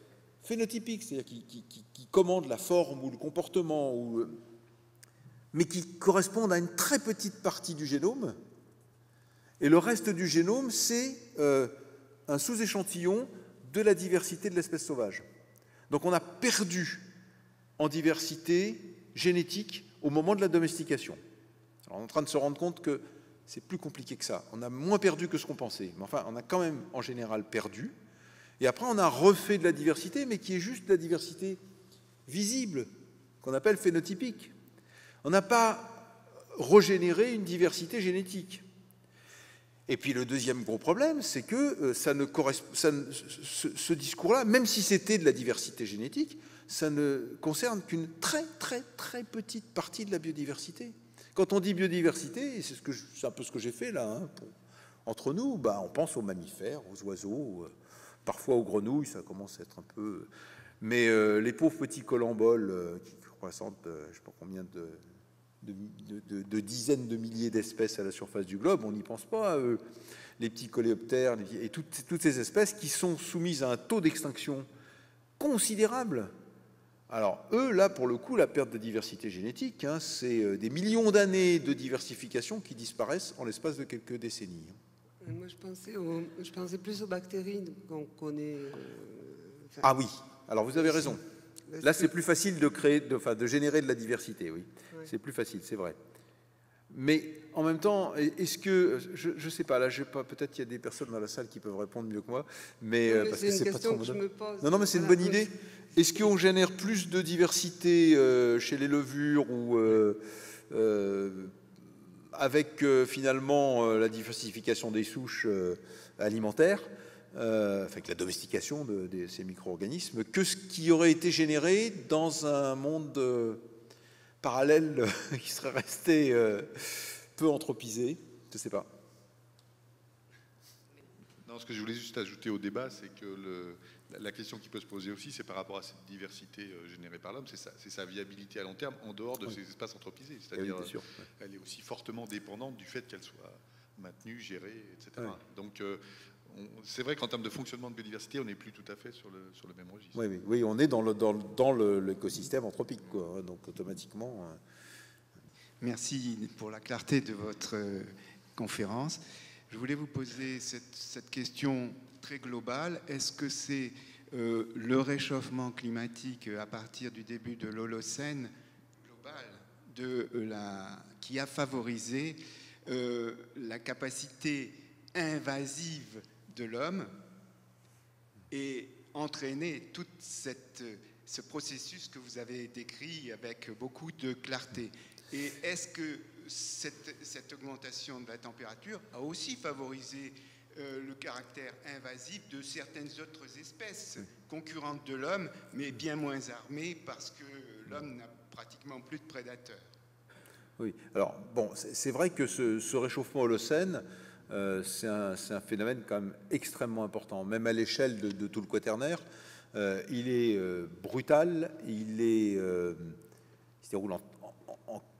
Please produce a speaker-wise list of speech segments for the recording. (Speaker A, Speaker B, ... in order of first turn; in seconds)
Speaker A: 0.4-4.4, 5.5-8.4, 9.6-11.7, 12.3-15.2, 15.9-17.1, 17.8-21.2, 21.9-27.9, 28.6-31.6, 32.3-32.9, 33.4-34.5, 35.2-38.6, 39.9-54.5, 55.1-57.7, 58.3-60.3, 60.8-65.0, 65.6-69.8, 70.4-74.7, 75.4-76.3, 77.1-84.8, 89.8-91.2, 91.8-96.0, 96.9-111.5, 112.3-123.6, 124.4-128.9, 140.6-141.1, 150.2-154.6, 200.8-209.2, 209.7-213.2, 213.8-215.0
Speaker B: 85.2-89.8, 91.0-92.1, 103.1-105.4
Speaker C: 131.5-150.2
Speaker D: 155.8-177.1, 178.5-199.9